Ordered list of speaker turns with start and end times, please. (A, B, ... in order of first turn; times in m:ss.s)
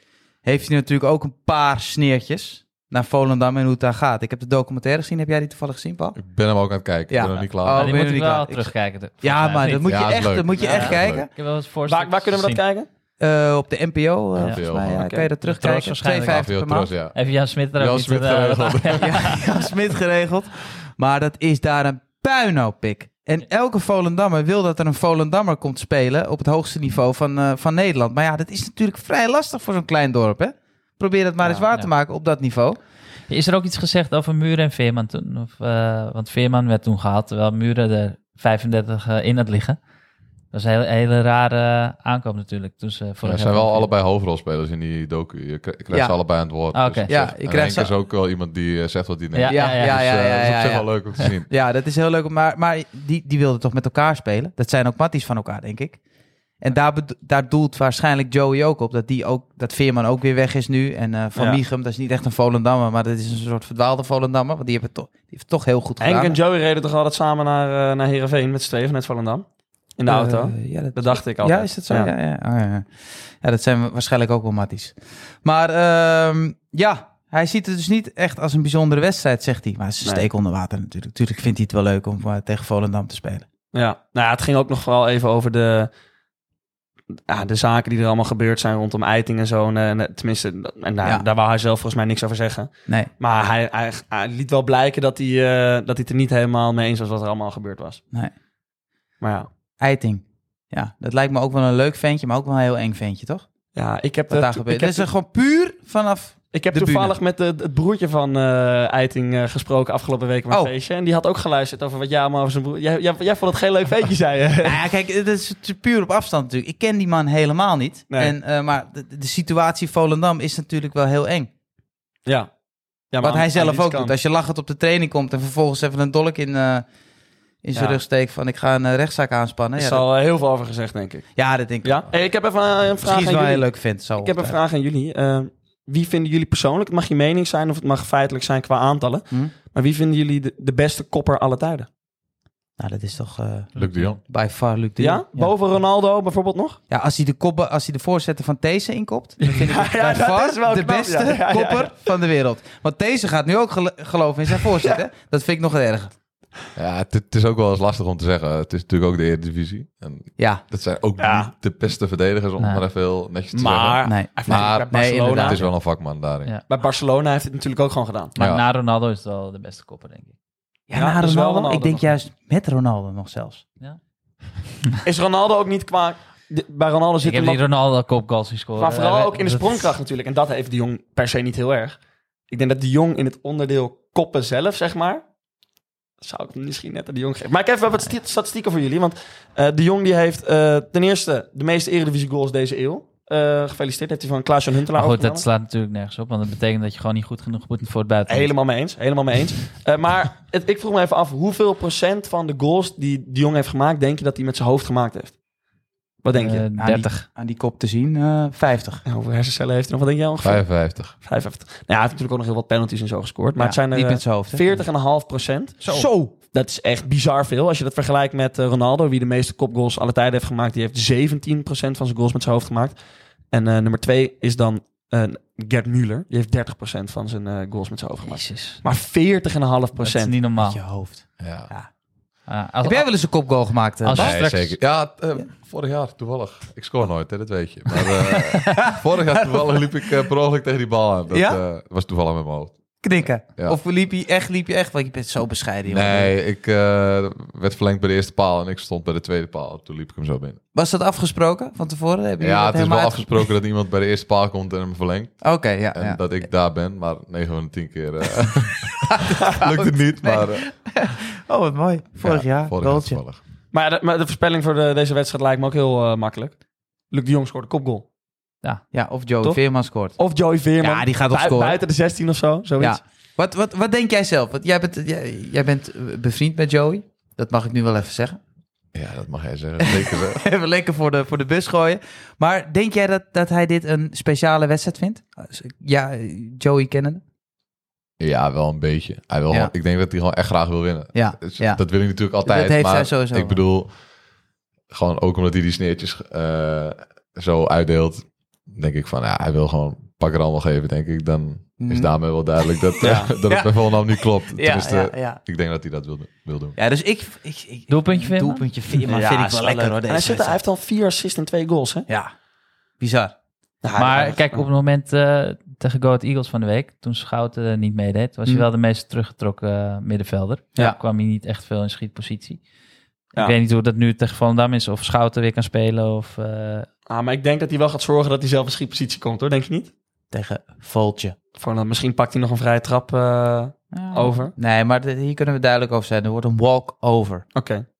0:00.4-0:06.2 A
0:06.2-0:07.9 B
0:07.1-0:11.3 A
0:07.7-0:12.6 C
0:09.8-0:11.2 B
0:11.9-0:12.9 D
0:13.2-0:16.9 A
0:14.4-0:15.0 B
0:15.0-0:15.3 D
0:15.4-0:16.5 C
0:16.1-0:17.2 B
0:17.1-0:19.4 C
0:17.8-0:19.3 B
0:19.0-0:32.8 A
0:33.3-0:39.8 C
0:40.5-0:43.9 C
0:43.2-0:51.5 B
0:46.7-0:47.1 C
0:47.1-0:47.9 A
0:49.3-0:50.0 C
0:49.5-0:56.0 A
0:56.6-1:06.4 A
1:01.4-1:01.6 D
1:06.0-1:09.4 D
1:10.0-1:12.1 D
1:10.0-1:23.4 A
1:23.7-1:25.9 D
1:27.3-1:38.0 D
1:39.2-1:39.5 D
1:39.8-1:43.4 A
1:43.7-1:45.1 D
1:44.3-1:47.1 A
1:46.5-1:54.8 D
1:54.6-2:01.5 A
2:03.1-2:04.1 D
2:03.2-2:06.8 A
2:07.6-2:10.0 A
2:07.7-2:08.0 D
2:09.8-2:11.3 D
2:11.4-2:12.1 A
2:11.8-2:21.9 D
2:13.0-2:14.6 A
2:22.8-2:25.5 A
2:23.8-2:24.1 C
2:23.8-2:24.2 B
2:25.0-2:26.8 D
2:26.9-2:36.1 A
2:29.4-2:31.9 D
2:36.8-2:46.5 B
2:40.4-2:40.6 A
2:41.2-2:41.5 D
2:42.6-2:42.8 C
2:43.5-2:45.6 D
2:44.0-2:45.6 A
2:46.7-2:48.3 D
2:48.4-2:48.6 B
2:48.4-2:50.3 C
2:50.9-2:53.6 A
2:50.9-2:52.1 D
2:55.0-2:57.6 D
2:57.2-2:59.9 C
2:58.8-3:02.0 D
3:02.5-3:05.2 D
3:06.2-3:15.4 D
3:14.9-3:18.5 C
3:18.3-3:25.4 D
3:26.2-3:26.6 D
3:26.3-3:27.2 C
3:26.8-3:29.0 A
3:29.0-3:35.8 D
3:30.4-3:31.1 B
3:33.6-3:34.9 A
3:35.8-3:36.1 C
3:35.8-3:36.3 A
3:36.5-3:43.0 D
3:43.5-3:50.3 D
3:48.2-3:48.8 C
3:50.0-3:50.8 C
3:50.6-3:51.9 A
3:51.4-3:51.7 B
3:52.5-3:53.1 C
3:52.8-3:54.4 A
3:54.0-3:54.8 C
3:54.2-4:02.8 B
3:58.0-4:00.0 A
4:01.3-4:01.6 A
4:03.0-4:06.3 A
4:05.9-4:10.6 B
4:10.7-4:13.5 A
4:12.4-4:15.4 B
4:15.4-4:16.4 A
4:15.9-4:20.7 B
4:19.1-4:23.2 A
4:22.2-4:23.4 B
4:23.7-4:26.5 D
4:27.1-4:28.0 D
4:28.9-4:30.2 A
4:30.2-4:33.0 D
4:30.8-4:31.8 A
4:32.8-4:38.4 A
4:38.9-4:40.4 B
4:39.8-4:47.2 A
4:48.2-4:53.9 B
4:51.1-4:51.8 A
4:52.3-4:53.6 A
4:54.9-5:06.8 B
5:01.8-5:02.1 A
5:03.0-5:03.3 D
5:03.4-5:05.4 A
5:06.8-5:10.6 A
5:07.9-5:08.6 C
5:09.0-5:12.1 D
5:13.0-5:13.3 A
5:13.8-5:14.6 D
5:14.0-5:22.6 C
5:23.3-5:26.9 C
5:27.1-5:29.9 D
5:30.3-5:31.4 A
5:31.6-5:34.5 D
5:33.9-5:37.4 A
5:37.5-5:37.8 D